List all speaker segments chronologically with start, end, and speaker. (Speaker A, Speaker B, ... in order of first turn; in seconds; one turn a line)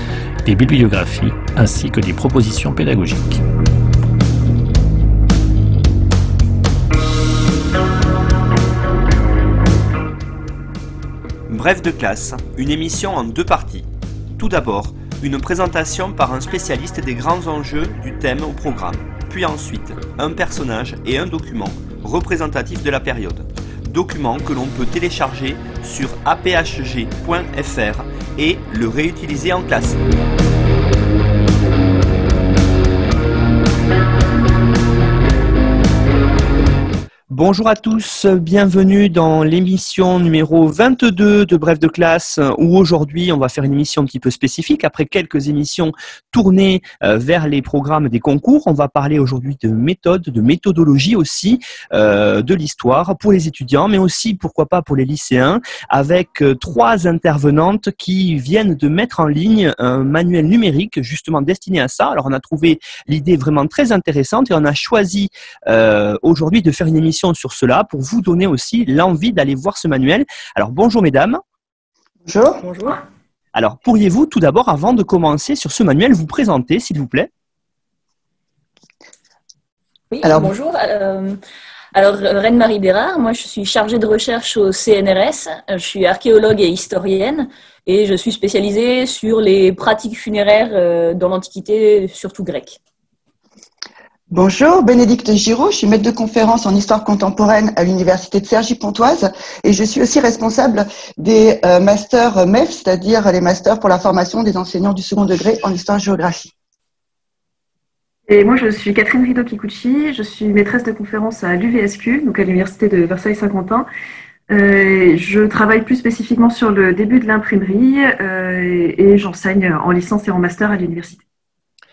Speaker A: 0.4-3.4
Speaker B: 11.5-30.0
Speaker B: 37.3-71.4
Speaker C: 72.2-72.7
Speaker D: 72.6-73.0
Speaker B: 73.5-77.3
Speaker D: 80.1-81.4
Speaker C: 80.2-80.5
Speaker D: 81.9-92.8
Speaker C: 94.3-106.5
Speaker E: 108.3-113.9
Speaker E: 114.5-121.2